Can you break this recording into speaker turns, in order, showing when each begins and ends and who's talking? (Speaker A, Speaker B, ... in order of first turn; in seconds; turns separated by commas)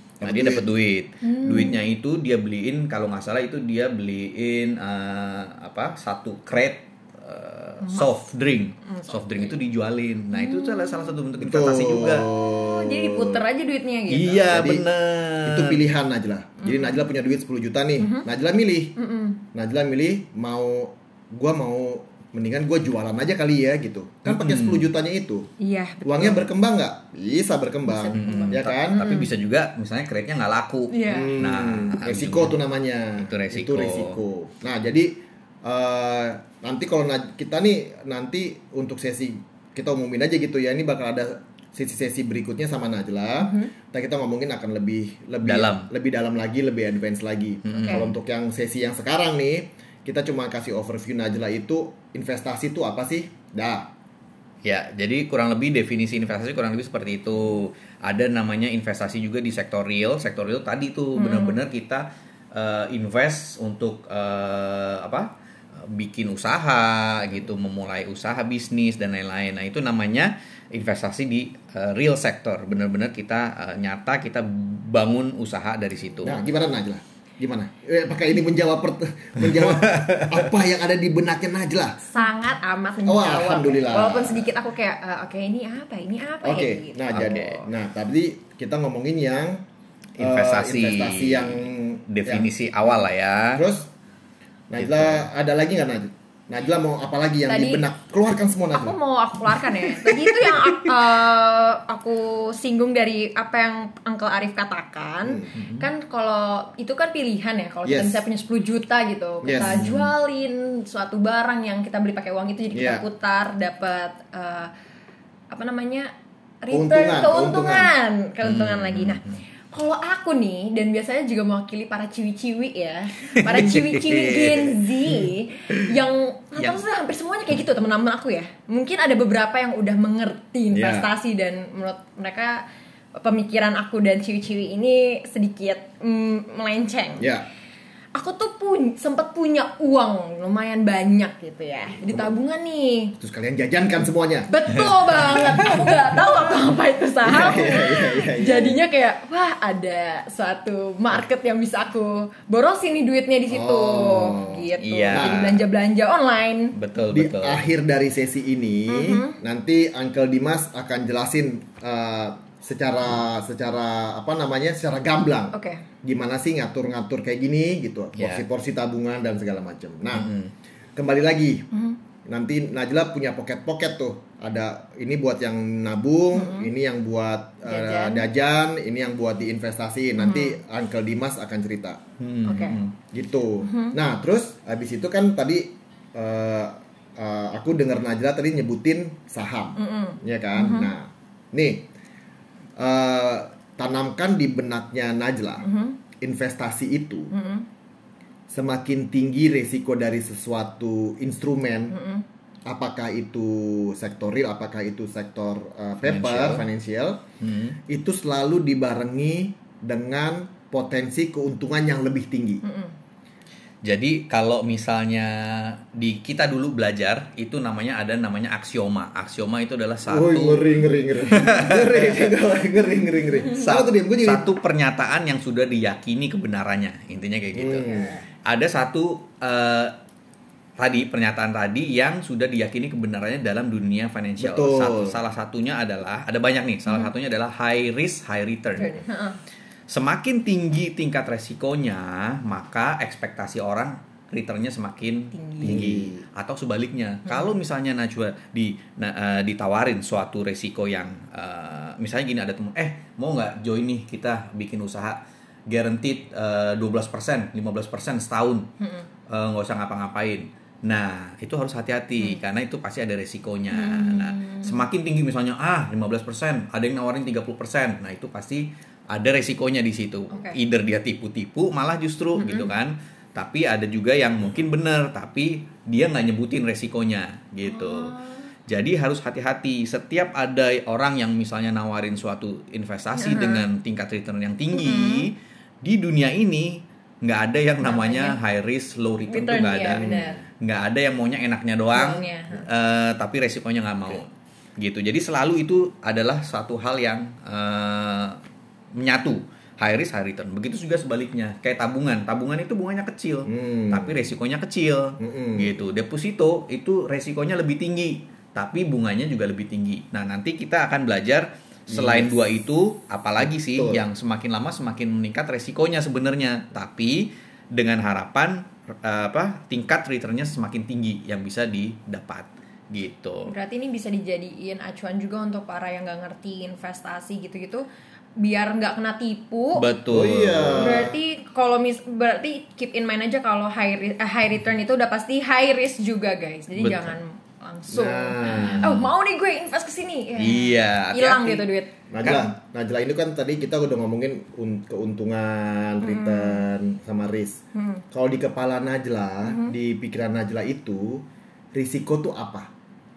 Speaker A: 0.2-0.7, Speaker B: 0.2-12.3, Speaker C: 1.2-1.8, Speaker C: 7.8-8.1, Speaker C: 8.8-9.6, Speaker C: 10.3-11.1, Speaker A: 11.4-13.4, Speaker C: 12.3-14.5, Speaker B: 14.1-15.9, Speaker A: 14.4-14.8, Speaker A: 15.4-18.9, Speaker C: 16.6-17.0, Speaker C: 18.0-18.2, Speaker C: 18.9-19.4, Speaker A: 19.5-25.5, Speaker B: 24.3-24.9, Speaker C: 25.6-26.4, Speaker A: 26.0-29.0, Speaker C: 27.9-29.3, Speaker B: 28.1-32.6, Speaker C: 30.9-31.4, Speaker A: 31.1-53.9, Speaker B: 33.2-34.2, Speaker C: 43.4-43.7, Speaker B: 45.4-45.9, Speaker B: 47.6-48.2, Speaker C: 47.7-48.0, Speaker B: 54.6-76.4, Speaker C: 61.1-61.6, Speaker A: 76.2-82.0, Speaker B: 79.5-80.4, Speaker C: 82.1-87.4, Speaker A: 83.0-84.5, Speaker A: 86.4-89.6, Speaker B: 87.1-87.6, Speaker B: 90.2-93.6, Speaker A: 90.2-92.5, Speaker A: 93.5-93.9, Speaker A: 94.7-99.0, Speaker B: 94.8-95.3, Speaker C: 97.5-97.8, Speaker C: 98.7-114.7, Speaker B: 100.5-100.9, Speaker A: 105.2-105.6, Speaker A: 107.8-108.2, Speaker A: 109.4-110.1, Speaker B: 109.6-109.9, Speaker A: 112.7-113.0, Speaker C: 115.5-132.6, Speaker A: 116.7-117.9, Speaker B: 118.4-119.4, Speaker B: 123.4-125.2, Speaker A: 130.8-131.1, Speaker C: 133.2-137.3, Speaker A: 137.2-137.4, Speaker C: 138.1-143.2, Speaker A: 142.0-142.3, Speaker A: 143.2-144.5, Speaker C: 144.5-156.7, Speaker A: 145.2-145.7, Speaker A: 147.2-148.8, Speaker A: 153.5-155.5, Speaker B: 154.8-155.6, Speaker B: 156.7-157.6, Speaker A: 157.1-170.3, Speaker C: 158.9-159.4, Speaker C: 165.5-165.8, Speaker B: 168.2-168.4, Speaker B: 170.1-170.5, Speaker A: 170.9-171.7, Speaker C: 171.7-172.0, Speaker A: 172.2-182.0, Speaker C: 176.3-176.7, Speaker C: 177.7-178.3, Speaker C: 180.2-180.6, Speaker B: 182.2-182.9, Speaker C: 182.4-182.8, Speaker A: 183.1-191.9, Speaker C: 183.6-183.9, Speaker C: 189.8-190.9, Speaker A: 192.8-195.6, Speaker C: 195.6-196.0, Speaker A: 196.2-197.3, Speaker C: 197.3-197.7, Speaker A: 198.5-202.0, Speaker C: 201.9-202.2, Speaker A: 202.7-207.2, Speaker B: 206.0-206.6, Speaker B: 207.4-207.8, Speaker A: 207.9-212.6, Speaker C: 212.6-212.9, Speaker B: 213.8-220.8, Speaker A: 220.1-224.5, Speaker B: 221.3-222.3, Speaker B: 223.5-229.9, Speaker A: 227.5-228.2, Speaker B: 230.8-239.1, Speaker A: 234.4-235.2, Speaker C: 238.8-239.4, Speaker B: 239.9-258.7, Speaker C: 245.3-245.9, Speaker A: 245.6-246.2, Speaker C: 258.8-259.1, Speaker B: 259.3-278.1, Speaker C: 263.7-264.7, Speaker C: 270.3-270.6, Speaker C: 272.4-272.7, Speaker C: 277.6-278.5, Speaker B: 278.7-298.4, Speaker C: 283.2-283.6, Speaker C: 284.7-285.3, Speaker C: 287.8-288.4, Speaker C: 289.3-290.4, Speaker A: 289.8-290.4, Speaker C: 291.9-292.6, Speaker B: 298.9-323.5, Speaker A: 303.4-304.3, Speaker A: 305.2-305.8, Speaker A: 311.9-312.4, Speaker A: 313.7-314.0, Speaker C: 323.4-327.8, Speaker C: 328.4-329.8, Speaker B: 329.7-331.1, Speaker A: 330.1-331.2, Speaker C: 330.8-341.9, Speaker B: 336.7-337.2, Speaker A: 337.9-338.9, Speaker B: 338.6-339.1, Speaker B: 340.4-341.6, Speaker A: 342.1-347.6, Speaker B: 342.2-342.5, Speaker C: 346.0-346.6, Speaker C: 347.7-348.0, Speaker A: 348.1-352.7, Speaker C: 349.4-349.7